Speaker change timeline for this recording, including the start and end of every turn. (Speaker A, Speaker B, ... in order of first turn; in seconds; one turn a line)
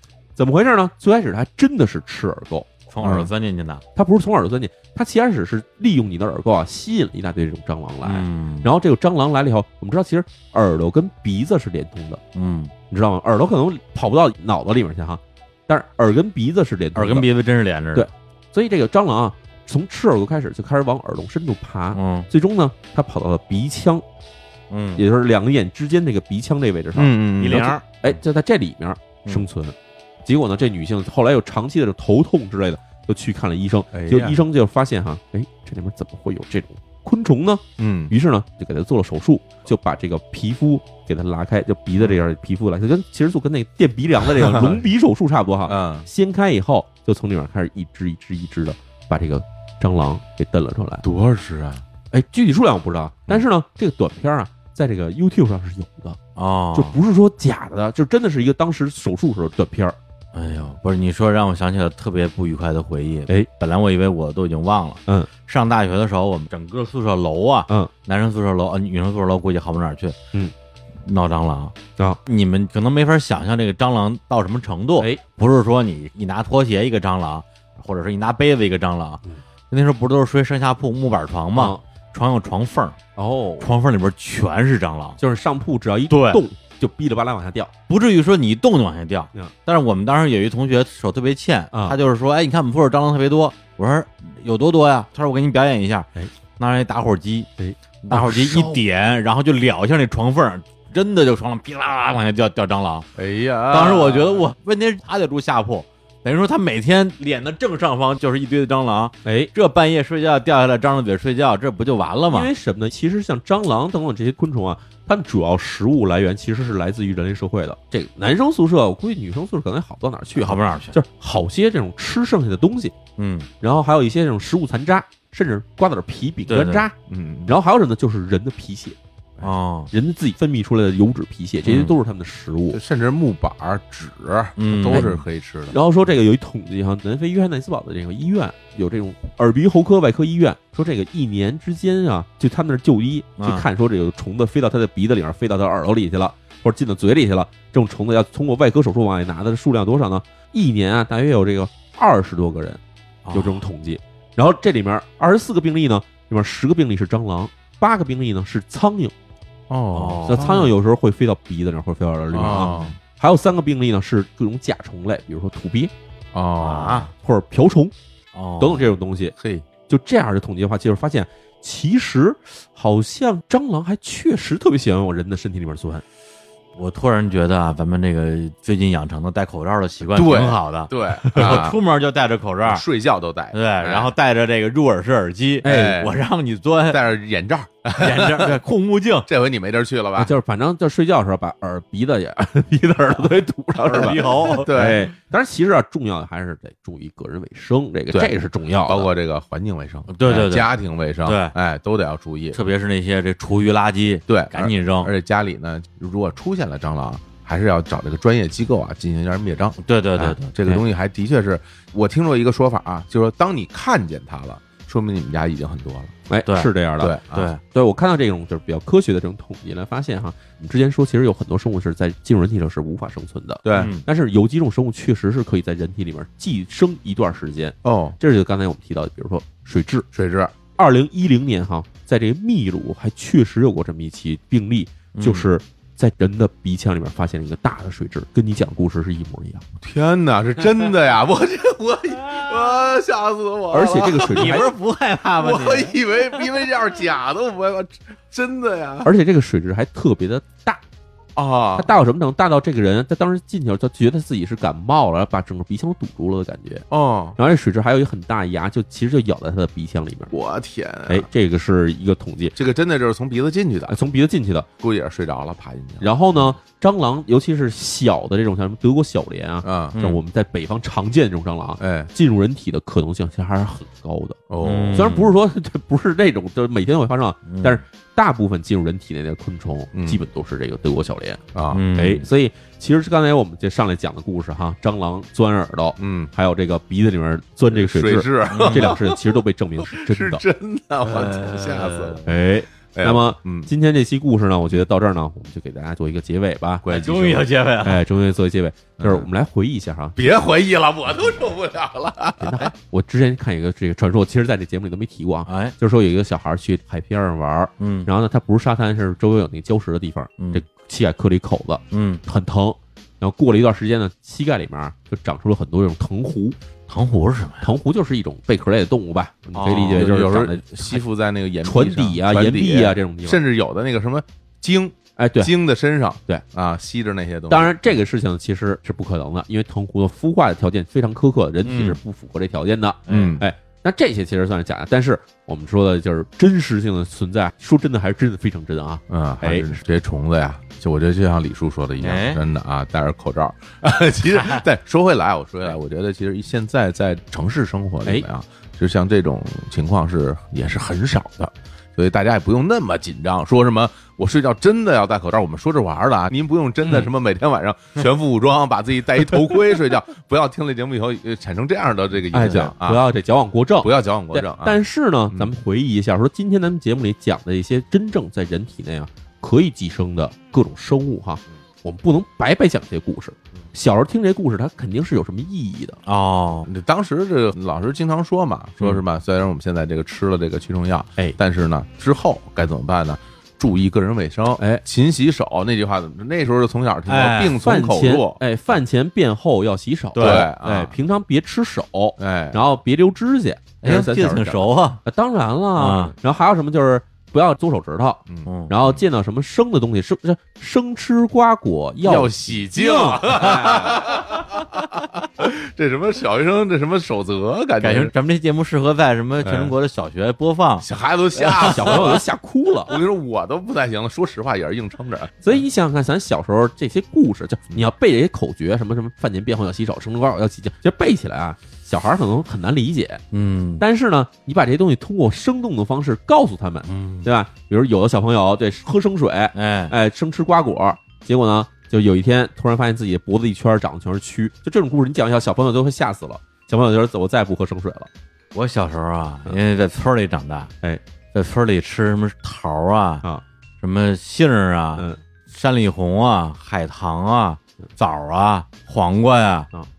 Speaker A: 0.4-2.7
Speaker B: 2.9-3.8
Speaker C: 3.0-3.3
Speaker A: 4.0-12.2
Speaker B: 8.0-8.7
Speaker B: 12.3-12.7
Speaker A: 12.9-17.3
Speaker B: 16.9-18.1
Speaker A: 17.9-24.0
Speaker B: 21.9-22.3
Speaker B: 24.7-25.0
Speaker A: 25.0-51.0
Speaker C: 26.9-28.2
Speaker B: 27.4-27.8
Speaker C: 33.9-34.4
Speaker C: 37.8-38.1
Speaker C: 44.2-44.8
Speaker C: 45.7-46.1
Speaker C: 51.0-51.8
Speaker A: 52.1-56.2
Speaker B: 56.4-57.0
Speaker A: 56.7-60.0
Speaker B: 60.3-70.2
Speaker B: 71.0-83.0
Speaker A: 81.5-81.8
Speaker A: 83.2-83.7
Speaker B: 83.6-85.2
Speaker A: 85.2-87.7
Speaker B: 86.1-86.4
Speaker B: 87.9-96.1
Speaker B: 96.6-97.5
Speaker A: 97.6-98.8
Speaker B: 98.0-103.1
Speaker C: 103.1-104.4
Speaker B: 103.7-112.5
Speaker A: 109.2-109.5
Speaker A: 112.3-122.9
Speaker B: 120.4-121.0
Speaker B: 123.2-123.5
Speaker A: 123.6-126.9
Speaker B: 126.5-126.8
Speaker C: 127.1-127.5
Speaker A: 127.5-129.0
Speaker B: 129.4-129.9
Speaker A: 129.9-132.8
Speaker C: 131.6-131.9
Speaker C: 132.7-135.8
Speaker B: 134.6-135.1
Speaker A: 134.9-152.8
Speaker B: 143.4-143.7
Speaker B: 153.2-153.7
Speaker A: 153.3-159.1
Speaker C: 159.7-160.7
Speaker B: 159.9-160.7
Speaker A: 160.3-165.9
Speaker C: 162.3-162.9
Speaker B: 162.4-162.9
Speaker C: 166.3-167.1
Speaker B: 166.6-167.1
Speaker A: 167.2-167.9
Speaker B: 168.3-168.9
Speaker A: 168.6-169.3
Speaker C: 169.4-169.7
Speaker A: 169.9-176.0
Speaker B: 176.8-182.8
Speaker C: 180.1-181.8
Speaker A: 181.3-181.6
Speaker C: 182.6-184.1
Speaker B: 183.5-187.0
Speaker A: 185.6-186.0
Speaker C: 185.6-186.1
Speaker C: 186.9-188.6
Speaker B: 188.0-189.3
Speaker C: 189.3-190.3
Speaker A: 190.2-199.1
Speaker B: 193.8-194.7
Speaker C: 193.9-195.1
Speaker C: 198.8-202.6
Speaker B: 200.1-200.7
Speaker B: 201.2-201.5
Speaker B: 202.5-205.1
Speaker C: 204.3-216.1
Speaker B: 209.8-210.5
Speaker A: 216.3-230.1
Speaker B: 216.4-216.7
Speaker C: 217.0-217.5
Speaker B: 217.3-217.6
Speaker C: 223.6-223.9
Speaker B: 223.7-224.0
Speaker C: 227.8-228.2
Speaker C: 230.1-230.5
Speaker A: 230.7-239.7
Speaker B: 235.1-235.5
Speaker C: 239.8-244.7
Speaker A: 243.7-244.7
Speaker B: 244.3-245.9
Speaker C: 245.4-249.1
Speaker A: 249.0-250.8
Speaker C: 251.4-251.9
Speaker A: 251.8-256.9
Speaker C: 256.9-257.4
Speaker A: 257.4-260.3
Speaker C: 260.3-261.3
Speaker A: 261.1-262.6
Speaker C: 262.6-263.9
Speaker A: 263.9-264.7
Speaker C: 264.8-266.6
Speaker A: 266.0-274.4
Speaker C: 269.6-270.2
Speaker C: 271.8-272.1
Speaker C: 274.5-275.2
Speaker B: 274.6-275.3
Speaker A: 274.9-281.4
Speaker B: 277.5-277.8
Speaker C: 279.9-280.2
Speaker C: 281.5-281.8
Speaker B: 281.7-282.3
Speaker A: 281.9-290.4
Speaker C: 286.0-286.3
Speaker C: 287.7-292.2
Speaker B: 288.5-288.9
Speaker B: 291.1-292.3
Speaker A: 292.3-297.3
Speaker C: 292.9-293.7
Speaker C: 296.8-297.4
Speaker B: 296.9-298.0
Speaker A: 297.8-300.2
Speaker C: 299.0-299.3
Speaker C: 300.2-302.7
Speaker A: 302.4-316.6
Speaker B: 305.5-305.7
Speaker B: 307.8-308.1
Speaker B: 310.4-310.6
Speaker B: 311.9-312.2
Speaker B: 316.9-317.7
Speaker A: 317.6-321.0
Speaker B: 319.5-320.1
Speaker C: 319.6-327.8
Speaker A: 321.6-323.4
Speaker A: 325.2-325.5
Speaker A: 327.5-339.6
Speaker B: 331.6-332.0
Speaker B: 333.1-333.4
Speaker C: 333.1-333.4
Speaker C: 339.1-363.0
Speaker B: 342.0-342.4
Speaker B: 344.3-344.6
Speaker A: 362.3-376.0
Speaker C: 363.8-365.5
Speaker B: 376.1-376.7
Speaker C: 376.7-388.4
Speaker B: 387.1-387.6
Speaker A: 387.6-404.0
Speaker B: 390.1-390.5
Speaker C: 390.2-390.9
Speaker C: 392.2-392.6
Speaker B: 393.8-395.0
Speaker B: 395.8-396.1
Speaker C: 398.3-399.0
Speaker B: 398.4-398.7
Speaker C: 402.0-408.1
Speaker B: 403.5-403.9
Speaker B: 404.4-405.0
Speaker B: 407.8-412.2
Speaker C: 409.4-409.7
Speaker C: 410.8-412.2
Speaker A: 411.6-413.0
Speaker C: 412.9-415.3
Speaker A: 415.4-423.2
Speaker B: 423.3-423.8
Speaker A: 423.8-438.1
Speaker B: 426.9-427.3
Speaker B: 429.6-429.9
Speaker B: 438.6-440.7
Speaker B: 441.3-443.2
Speaker B: 443.8-449.7